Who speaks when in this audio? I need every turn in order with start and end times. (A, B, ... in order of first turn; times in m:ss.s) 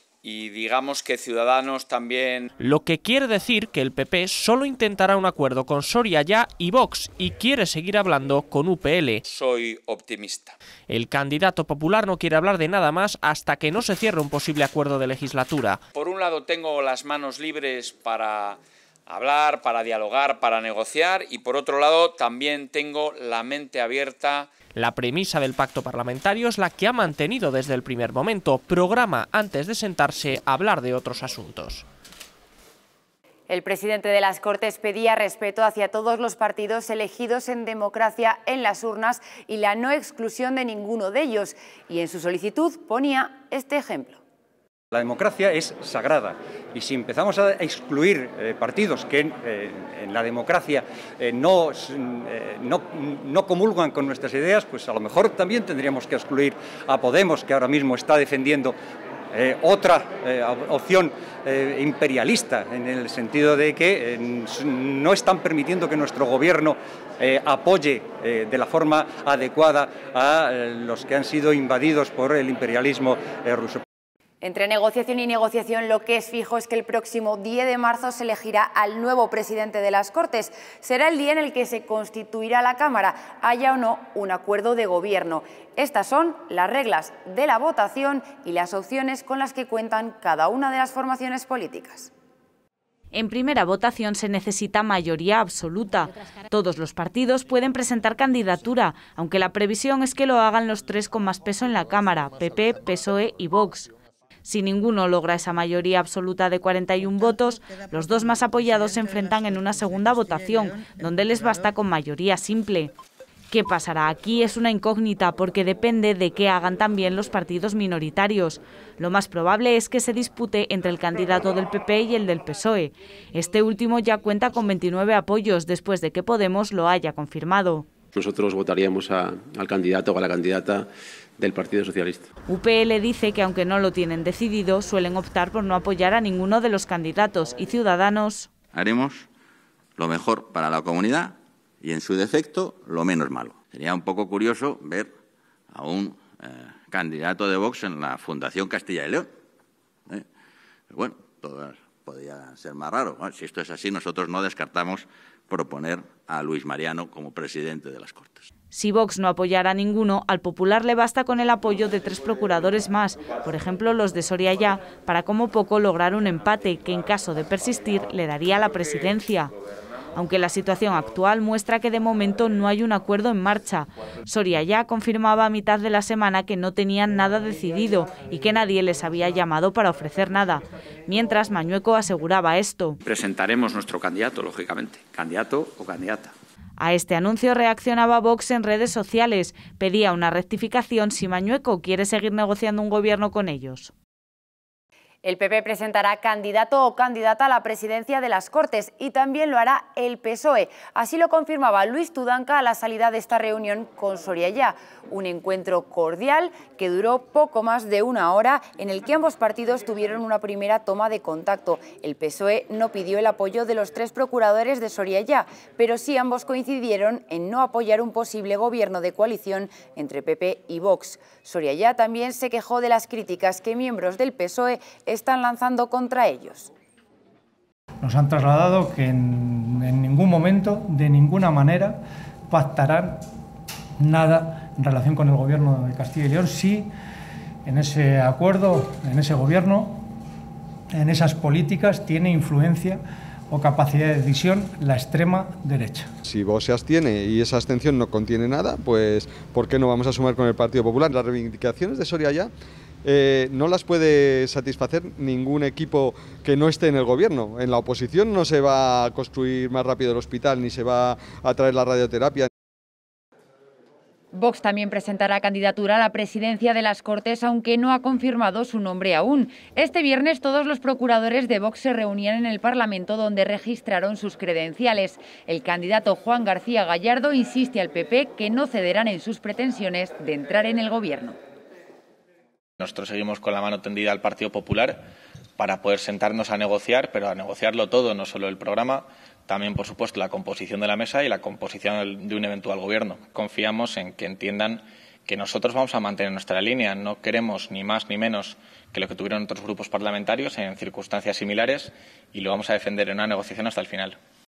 0:00.2-0:02.5 A
0:02.6-0:09.2 B
0:09.3-0:10.6 A
0:10.9-0:15.8 B
0:15.9-0:24.5 A
0:24.7-0:31.9 B
0:33.5-0:44.2 C
0:44.9-0:58.8 D
0:59.3-1:13.8 D
1:14.4-1:32.1 C
1:33.1-1:43.9 E
1:44.4-1:52.9 E
1:53.5-2:07.9 E
2:08.2-2:10.9 F
2:11.4-2:12.3 F
2:12.5-2:18.5 E
2:18.7-2:19.3 G
2:20.0-2:25.1 G
2:25.7-2:29.3 G
2:30.9-2:38.5 G
2:38.7-2:49.5 E
2:50.2-3:03.0 E
3:03.0-3:06.3 A
3:06.8-3:13.9 E
3:15.2-3:46.7 C
3:48.0-3:53.3 H
3:54.0-3:56.9 H
3:57.7-4:00.0 H
4:01.0-4:03.0 H
4:03.5-4:06.1 H
4:06.3-4:12.5 I
4:13.0-4:22.5 I
4:24.3-4:41.4 C
4:42.8-4:45.0 J
4:45.6-5:04.2 J